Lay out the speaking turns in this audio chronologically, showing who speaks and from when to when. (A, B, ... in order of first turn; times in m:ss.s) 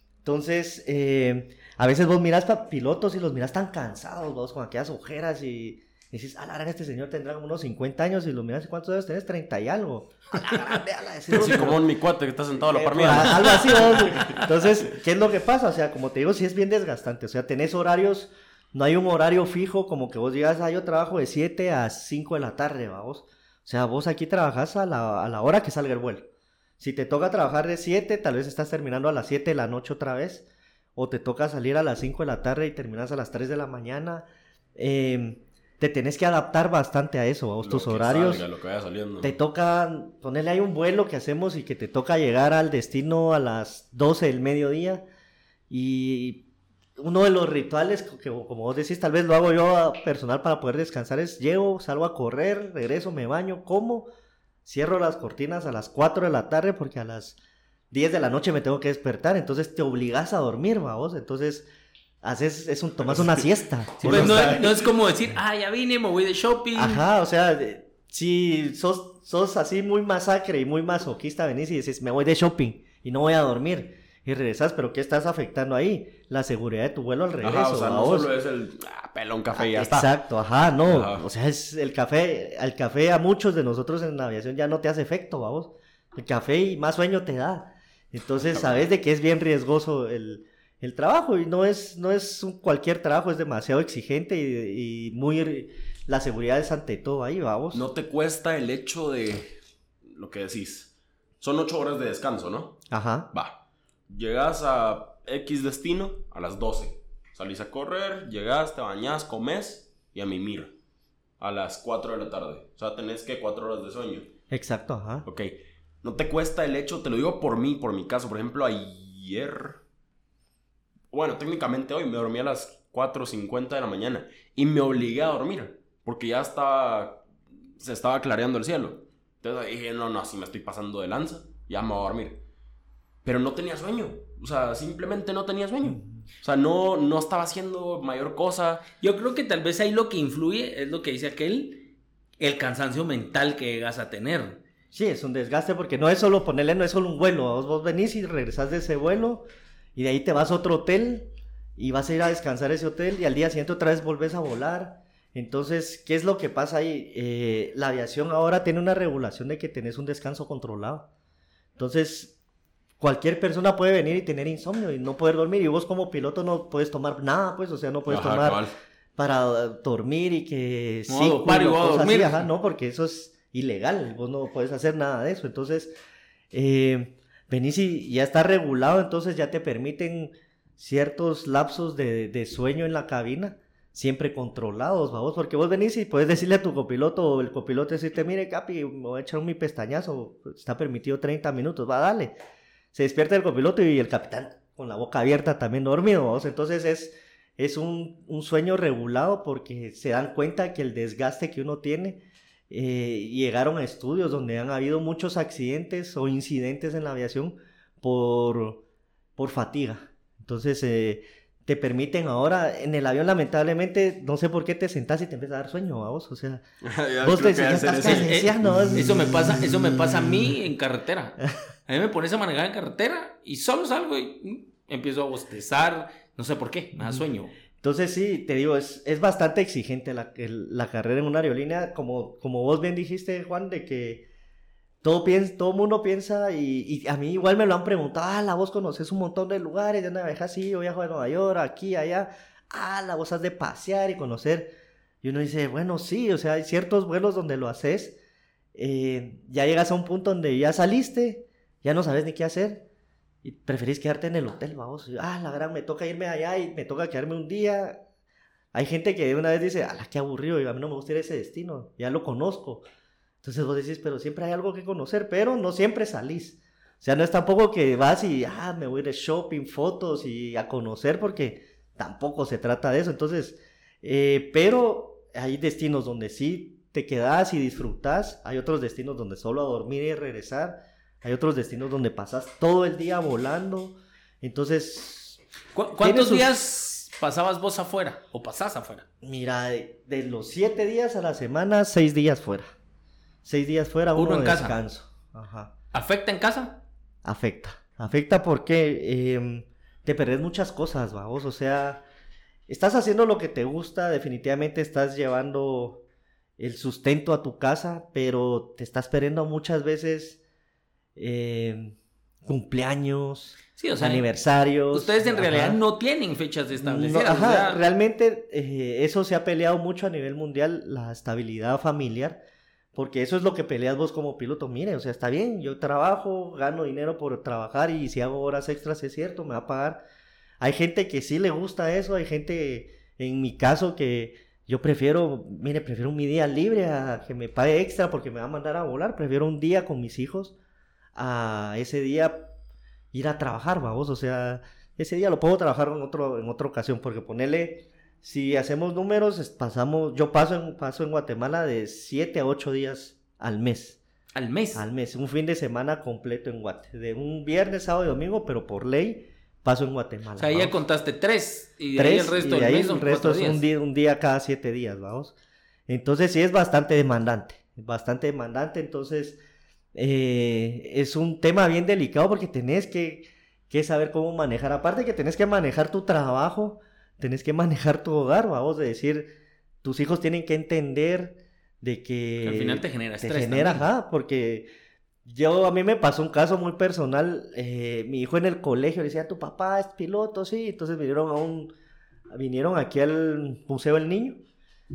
0:00.2-0:11.8 A
0:11.3-0:14.5 B
0:12.7-0:26.3 A
0:26.8-0:38.4 A
0:37.6-0:39.4 B
0:39.2-0:45.0 A
0:45.7-0:46.5 A
0:47.0-0:54.1 A
0:54.7-0:57.4 A
0:57.9-1:01.7 A
1:02.2-1:04.7 A
1:03.2-1:03.4 B
1:04.0-1:04.9 B
1:04.0-1:07.0 C
1:06.8-1:18.3 A
1:17.4-1:20.1 B
1:19.5-1:37.8 A
1:20.8-1:21.3 B
1:28.4-1:28.9 B
1:37.7-1:43.6 B
1:42.9-1:43.3 A
1:44.1-1:50.7 B
1:51.4-1:54.3 B
1:54.5-1:55.3 A
1:55.2-1:59.8 B
2:01.1-2:07.2 B
2:07.8-2:12.4 B
2:13.2-2:18.8 B
2:15.8-2:16.1 A
2:19.0-2:24.6 C
2:24.9-2:41.1 A
2:41.8-2:42.4 A
2:43.0-2:48.6 A
2:48.1-2:48.8 B
2:49.2-2:55.9 A
2:51.1-2:52.5 C
2:56.5-3:12.4 A
3:12.9-3:28.8 A
3:29.4-3:36.6 A
3:36.8-3:39.0 B
3:37.2-3:40.5 A
3:38.0-3:47.5 C
3:47.8-3:54.3 A
3:55.0-4:04.7 A
4:05.2-4:08.2 A
4:08.8-4:12.9 A
4:13.4-4:18.0 A
4:18.7-4:22.8 A
4:23.4-4:45.4 A
4:45.8-4:49.1 C
4:46.0-4:46.5 A
4:49.2-4:52.7 A
4:53.4-4:55.7 A
4:54.2-4:54.8 C
4:55.9-4:56.8 C
4:57.2-5:02.0 A
5:02.7-5:06.0 A
5:06.6-5:10.4 A
5:11.2-5:15.8 A
5:13.8-5:14.3 C
5:14.9-5:17.8 C
5:16.8-5:22.4 A
5:23.0-5:30.0 A
5:30.6-5:40.6 A
5:41.2-5:42.5 A
5:43.1-5:54.0 A
5:54.4-5:54.8 C
5:54.8-6:00.7 A
6:00.4-6:03.6 C
6:02.0-6:05.4 A
6:05.9-6:09.4 A
6:10.0-6:19.3 A
6:19.8-6:24.7 A
6:22.4-6:23.9 C
6:25.3-6:31.7 A
6:32.3-6:34.4 A